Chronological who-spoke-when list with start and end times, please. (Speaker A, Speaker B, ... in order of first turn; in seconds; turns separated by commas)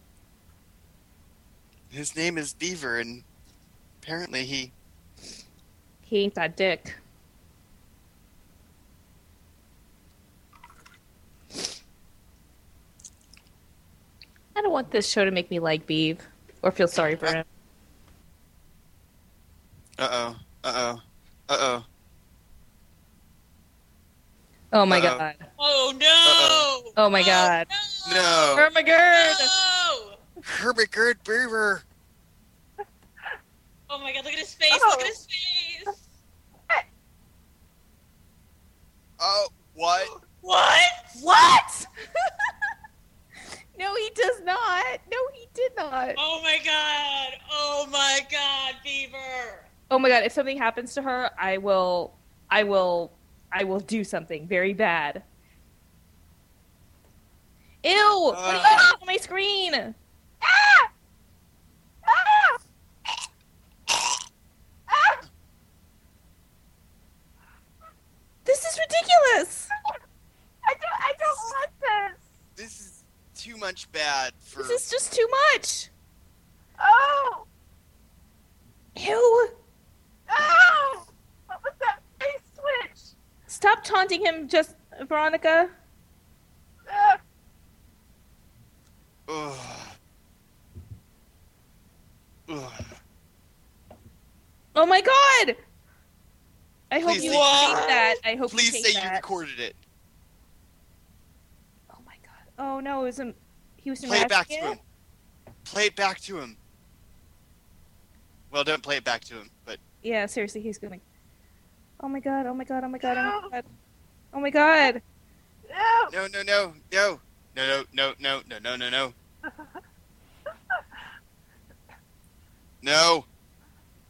Speaker A: 1.9-3.2, Speaker A: 4.0-4.7, Speaker B: 6.0-7.0, Speaker B: 14.6-17.5, Speaker A: 20.0-21.9, Speaker B: 24.7-25.5, Speaker A: 24.9-25.2, Speaker C: 25.6-30.2, Speaker A: 26.2-26.7, Speaker B: 27.0-27.7, Speaker A: 28.1-28.7, Speaker B: 28.6-29.5, Speaker A: 30.4-31.9, Speaker C: 33.9-36.0, Speaker D: 34.7-35.2, Speaker A: 39.2-40.1, Speaker C: 40.3-41.2, Speaker B: 41.1-41.9, Speaker B: 43.8-46.2, Speaker C: 46.2-49.7, Speaker B: 49.9-55.2, Speaker B: 57.8-60.0, Speaker A: 58.3-58.9, Speaker C: 58.6-58.9, Speaker D: 60.4-60.9, Speaker D: 62.0-62.6, Speaker D: 64.9-65.2, Speaker B: 68.5-69.7, Speaker D: 70.7-72.3, Speaker A: 72.6-74.8, Speaker B: 74.5-75.9, Speaker D: 76.8-77.5, Speaker B: 79.0-79.5, Speaker D: 80.3-83.1, Speaker B: 83.5-85.7, Speaker D: 86.9-87.2, Speaker A: 89.3-90.0, Speaker A: 92.5-93.0, Speaker B: 94.8-95.6, Speaker B: 96.9-99.2, Speaker A: 97.0-97.8, Speaker C: 97.2-98.2, Speaker A: 98.5-99.8, Speaker B: 101.9-104.8, Speaker A: 104.0-104.8, Speaker A: 105.7-106.6, Speaker A: 108.5-109.8, Speaker B: 110.0-111.0, Speaker B: 112.0-113.7, Speaker D: 113.0-113.5, Speaker B: 114.3-115.0, Speaker D: 115.7-116.1, Speaker A: 116.1-119.2, Speaker A: 122.8-123.3